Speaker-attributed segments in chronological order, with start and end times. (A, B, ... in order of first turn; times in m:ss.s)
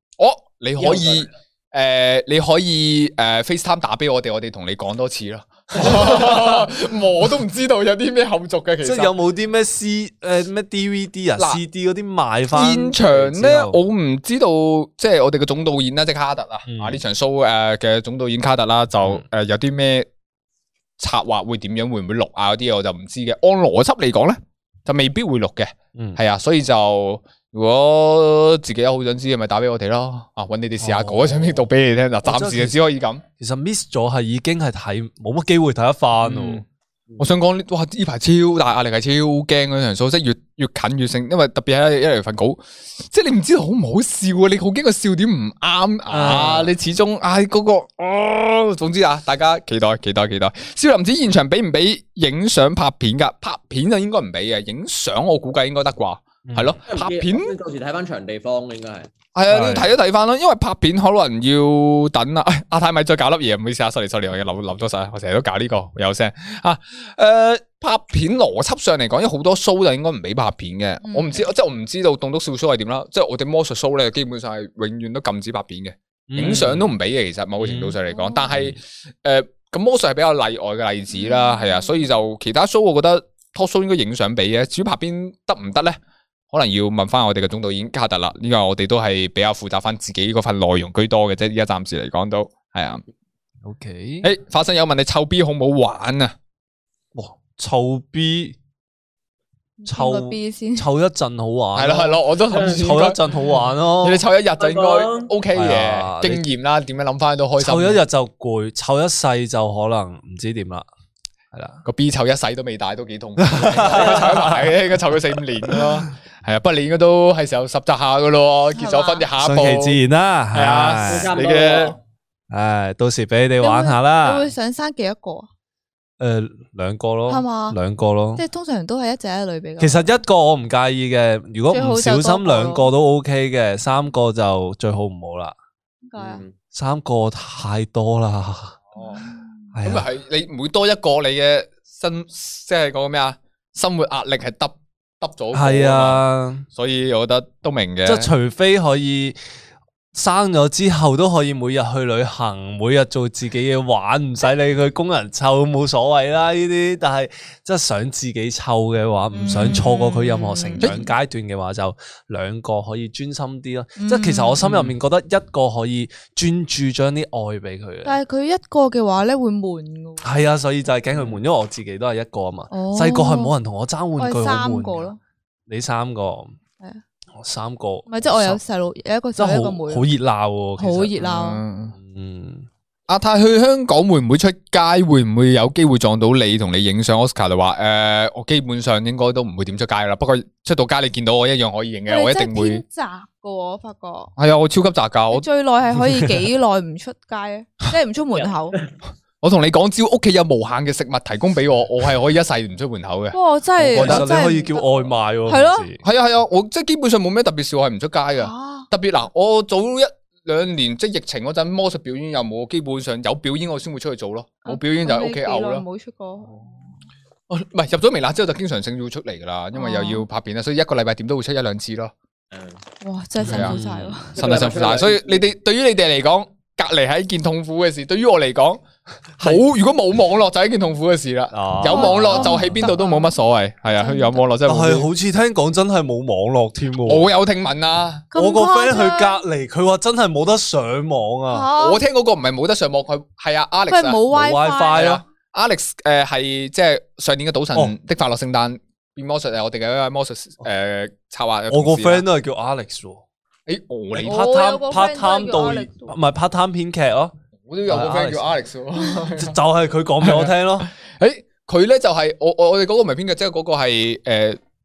0:00.2-0:09.1 A
0:00.8-0:01.3 B
0:08.8-0:13.8 C
0:12.5-0:20.1 A
0:16.7-0:17.0 C
0:21.0-0:33.2 A
0:25.9-0:26.2 C
0:30.8-0:31.7 C
0:32.2-0:32.8 C
0:33.4-0:36.6 C
0:36.2-0:36.6 A
0:37.2-0:57.5 A
0:46.1-0:46.7 C
0:56.4-0:56.8 C
0:56.9-0:59.1 B
0:59.3-1:26.0 A
0:59.5-0:59.9 C
1:11.0-1:11.4 D
1:16.3-1:16.9 C
1:17.6-1:18.0 C
1:18.1-1:18.5 D
1:21.1-1:22.0 D
1:26.5-1:33.0 A
1:33.6-1:34.3 C
1:34.2-1:36.3 A
1:37.1-1:38.6 C
1:39.8-1:40.8 D
1:39.9-1:44.2 C
1:41.7-1:43.2 A
1:42.5-1:42.8 B
1:44.0-1:48.0 A
1:44.6-1:45.3 B
1:45.5-1:46.4 C
1:47.6-1:50.8 C
1:51.5-1:51.8 C
1:51.8-2:00.0 A
1:53.4-1:54.7 C
1:53.8-1:54.3 B
1:55.7-1:56.0 C
1:58.7-1:59.2 D
1:59.4-2:01.3 C
2:00.5-2:01.9 A
2:01.0-2:02.0 B
2:02.5-2:04.5 C
2:03.6-2:05.5 D
2:06.2-2:08.4 C
2:07.3-2:07.8 D
2:08.4-2:10.1 D
2:09.8-2:15.5 C
2:11.7-2:12.9 D
2:16.0-2:16.4 D
2:16.2-2:16.5 B
2:16.7-2:18.8 C
2:18.9-2:19.2 A
2:19.0-2:19.6 D
2:19.7-2:20.0 C
2:19.8-2:26.2 A
2:25.5-2:26.6 C
2:26.7-2:28.3 A
2:28.0-2:29.4 C
2:30.1-2:48.2 C
2:39.3-2:41.0 D
2:44.0-2:44.6 D
2:48.0-2:50.3 D
2:50.2-2:55.1 C
2:52.7-2:53.5 D
2:54.2-2:55.2 D
2:55.7-2:56.6 C
2:57.3-2:58.6 C
2:58.1-3:00.1 D
2:59.4-3:01.1 C
3:00.8-3:01.6 D
3:01.2-3:01.9 A
3:01.9-3:02.7 C
3:03.1-3:12.8 A
3:12.1-3:14.3 D
3:14.4-3:15.4 A
3:15.3-3:18.8 D
3:18.3-3:18.9 B
3:19.4-3:23.4 A
3:23.3-3:25.9 D
3:23.8-3:26.0 C
3:23.9-3:24.2 A
3:26.0-3:35.8 A
3:28.4-3:28.9 D
3:34.6-3:36.9 D
3:37.5-3:42.1 A
3:39.7-3:40.2 D
3:42.5-3:42.8 B
3:43.0-3:44.4 D
3:43.4-3:44.3 C
3:43.4-3:43.8 A
3:44.3-3:45.4 B
3:44.3-3:48.8 A
3:49.4-3:55.1 A
3:51.5-3:52.8 C
3:51.8-3:53.4 D
3:53.9-3:54.4 D
3:54.6-3:57.3 C
3:57.0-3:58.3 A
3:58.3-3:59.4 D
3:58.3-4:01.7 C
4:01.5-4:02.0 D
4:01.8-4:04.2 A
4:03.9-4:05.1 D
4:04.3-4:05.2 C
4:04.9-4:12.2 A
4:11.7-4:13.2 C
4:13.7-4:14.4 A
4:14.2-4:17.3 C
4:14.2-4:16.2 D
4:17.7-4:19.6 A
4:17.9-4:18.4 C
4:19.2-4:20.9 C
4:20.2-4:24.6 A